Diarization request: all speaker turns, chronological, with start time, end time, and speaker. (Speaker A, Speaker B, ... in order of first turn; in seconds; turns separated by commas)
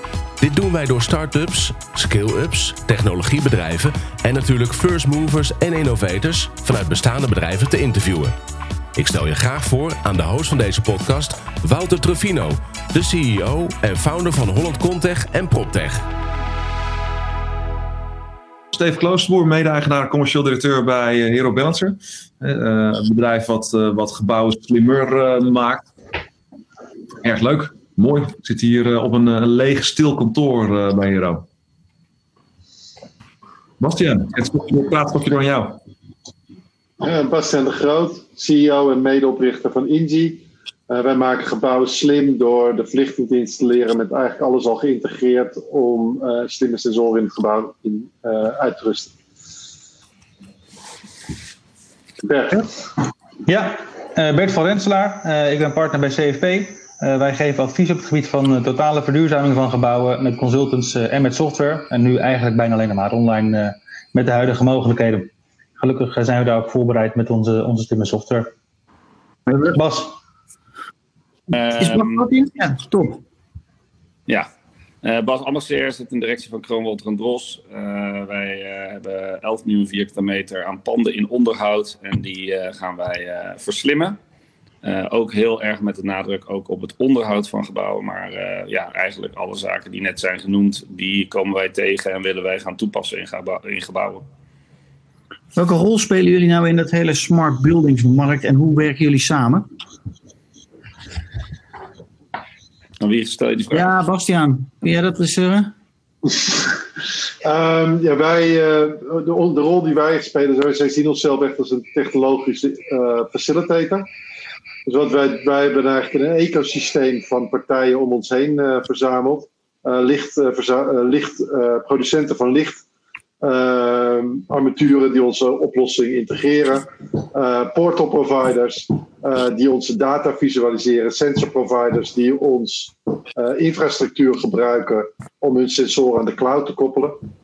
Speaker A: 0.4-8.3, Speaker A: 8.9-16.1, Speaker B: 18.7-25.9, Speaker B: 27.2-31.4, Speaker B: 33.8-35.8, Speaker C: 37.0-49.1, Speaker C: 52.2-52.7, Speaker D: 53.5-68.5, Speaker D: 69.7-70.2, Speaker E: 71.5-72.3, Speaker F: 71.8-73.2, Speaker E: 75.0-84.2, Speaker E: 84.8-94.2, Speaker F: 95.6-99.7, Speaker E: 103.0-103.9, Speaker F: 103.7-105.7, Speaker C: 107.4-114.1, Speaker C: 114.9-122.8, Speaker C: 123.4-137.2